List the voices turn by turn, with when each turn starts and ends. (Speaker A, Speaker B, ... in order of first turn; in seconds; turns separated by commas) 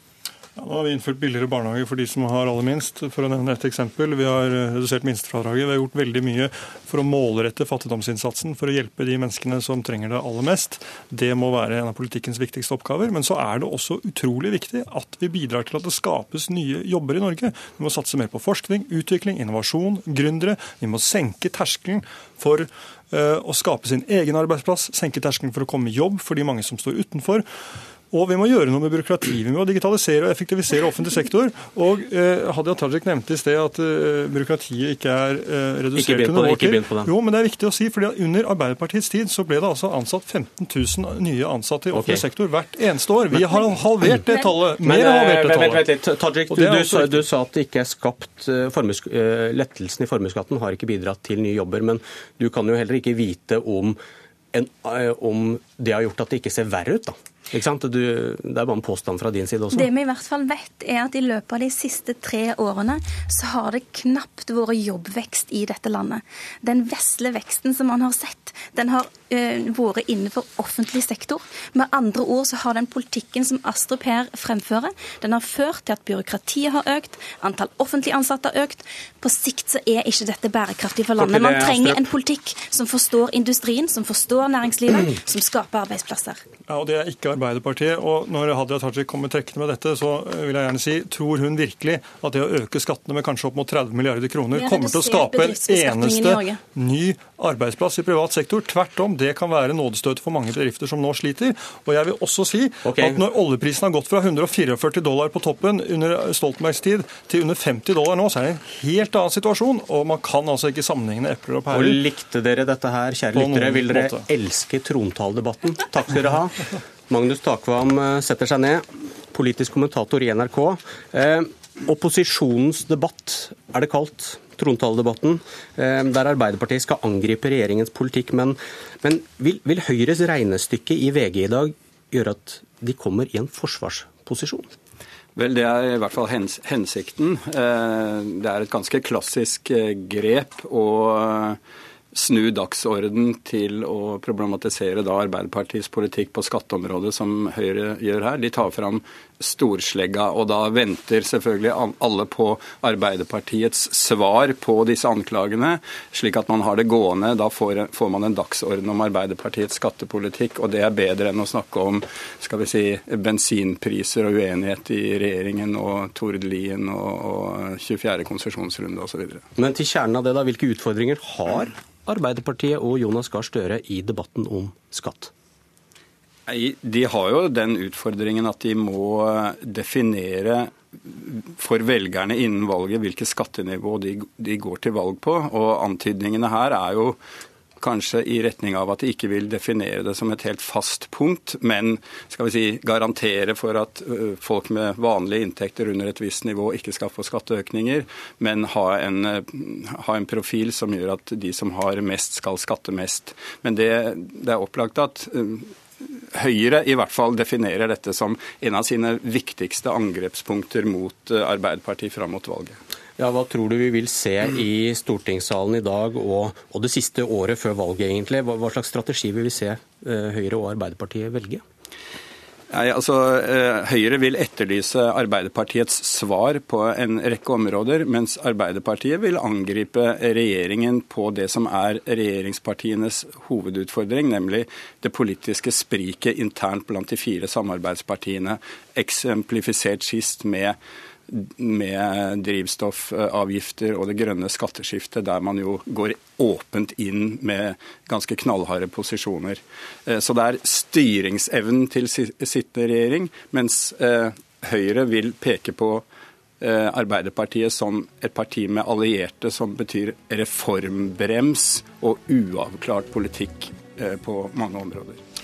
Speaker A: 0.6-27.4, Speaker A: 28.1-45.9, Speaker B: 36.0-37.1, Speaker B: 41.9-42.2, Speaker B: 44.8-54.0, Speaker A: 46.5-47.2, Speaker B: 54.5-59.9, Speaker C: 59.7-86.4, Speaker B: 81.2-82.1, Speaker A: 86.7-112.0, Speaker C: 94.5-96.6, Speaker B: 102.8-103.2, Speaker B: 111.7-134.7, Speaker A: 113.3-114.2, Speaker D: 135.4-141.6, Speaker D: 142.1-169.4, Speaker B: 169.6-175.3, Speaker D: 176.5-187.2, Speaker D: 187.8-212.8, Speaker B: 213.2-221.6, Speaker D: 222.7-240.8, Speaker D: 241.3-256.1, Speaker D: 256.6-265.2